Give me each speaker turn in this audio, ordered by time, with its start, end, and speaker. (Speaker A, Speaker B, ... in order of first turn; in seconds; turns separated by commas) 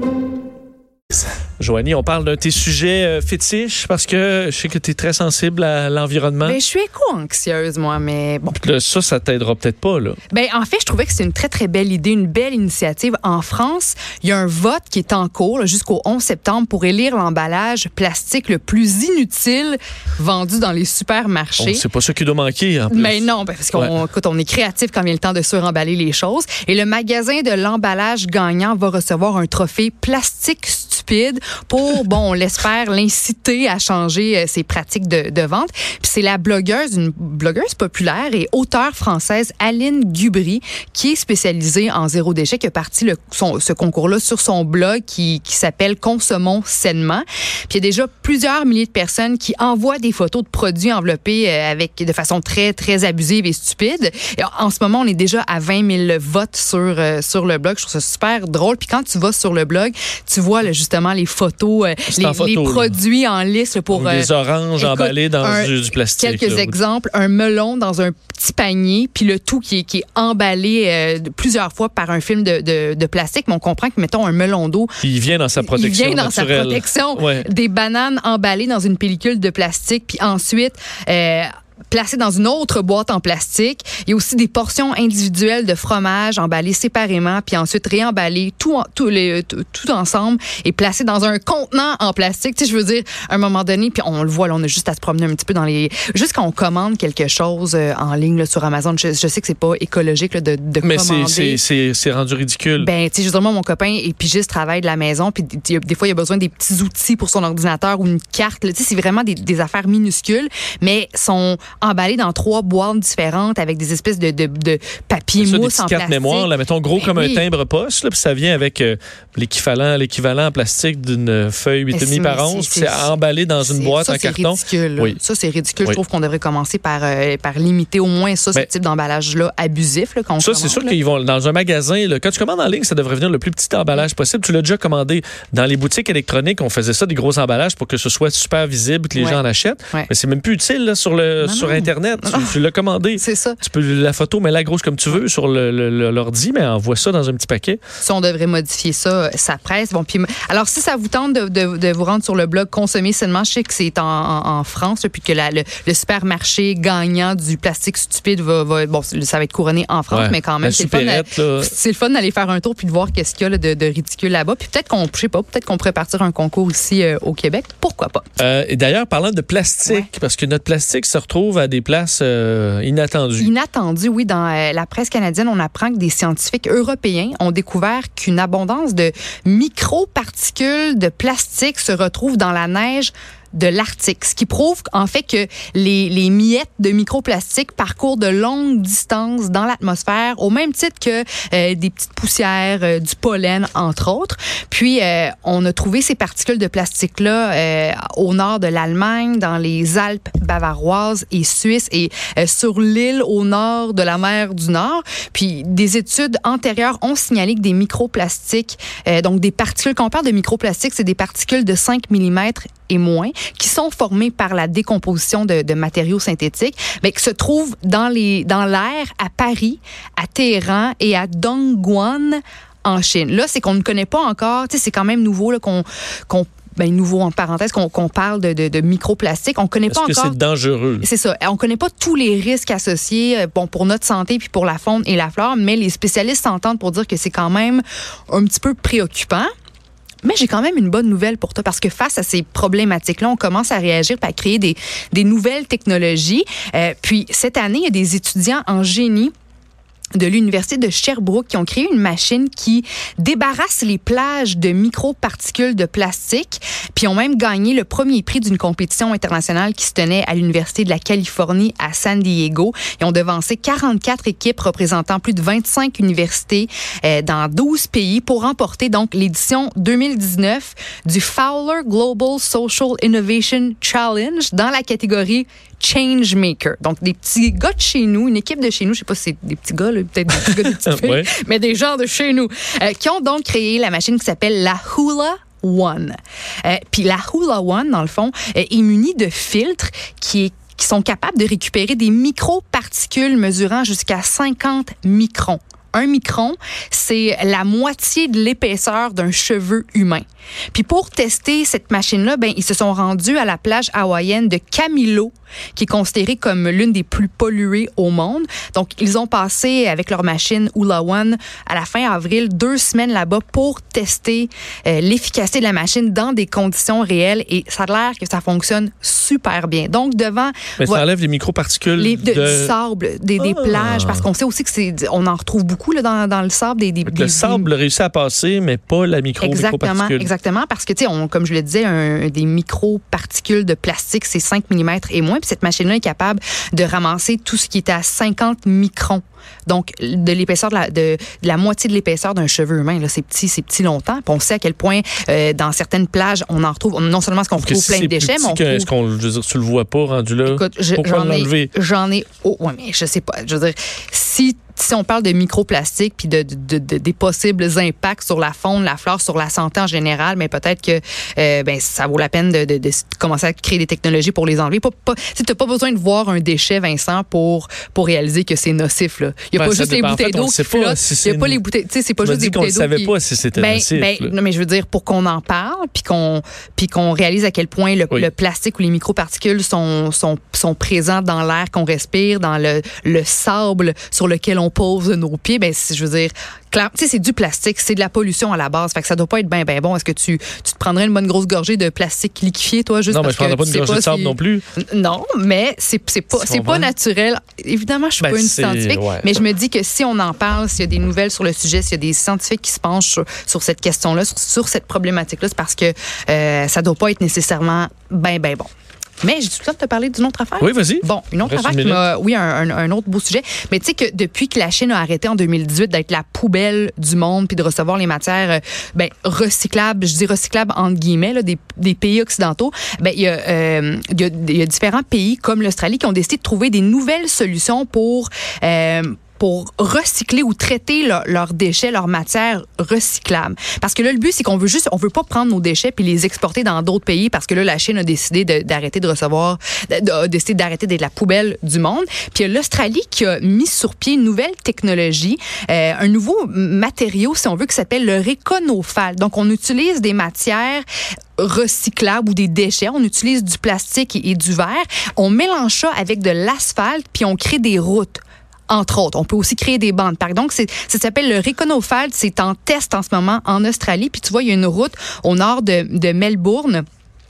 Speaker A: 1.6-6.6, Speaker B: 6.4-8.6, Speaker A: 8.5-10.2, Speaker B: 10.3-21.8, Speaker A: 21.6-23.9, Speaker B: 22.9-75.0, Speaker A: 62.1-62.9, Speaker A: 63.9-66.7, Speaker A: 75.0-77.5, Speaker B: 75.6-101.6, Speaker A: 100.8-102.9, Speaker B: 102.8-117.5, Speaker A: 115.4-125.2, Speaker B: 121.9-130.9, Speaker A: 130.4-147.8, Speaker B: 139.1-140.1, Speaker B: 141.4-142.6, Speaker B: 143.2-143.6, Speaker B: 148.0-168.2, Speaker A: 160.1-161.7, Speaker A: 168.4-173.5, Speaker B: 173.4-230.3, Speaker A: 229.9-231.1, Speaker B: 231.0-239.5, Speaker B: 240.2-249.3, Speaker B: 250.2-321.0, Speaker A: 280.3-281.3, Speaker A: 320.8-322.7, Speaker B: 321.9-327.7, Speaker A: 323.4-324.2, Speaker A: 327.1-330.3, Speaker B: 329.4-348.9, Speaker A: 347.6-351.7, Speaker B: 350.4-408.7, Speaker A: 369.5-371.6, Speaker A: 372.2-374.3, Speaker A: 393.1-394.6, Speaker A: 396.3-396.9, Speaker A: 398.2-399.3, Speaker B: 409.2-450.8, Speaker A: 410.6-412.0, Speaker B: 451.4-466.8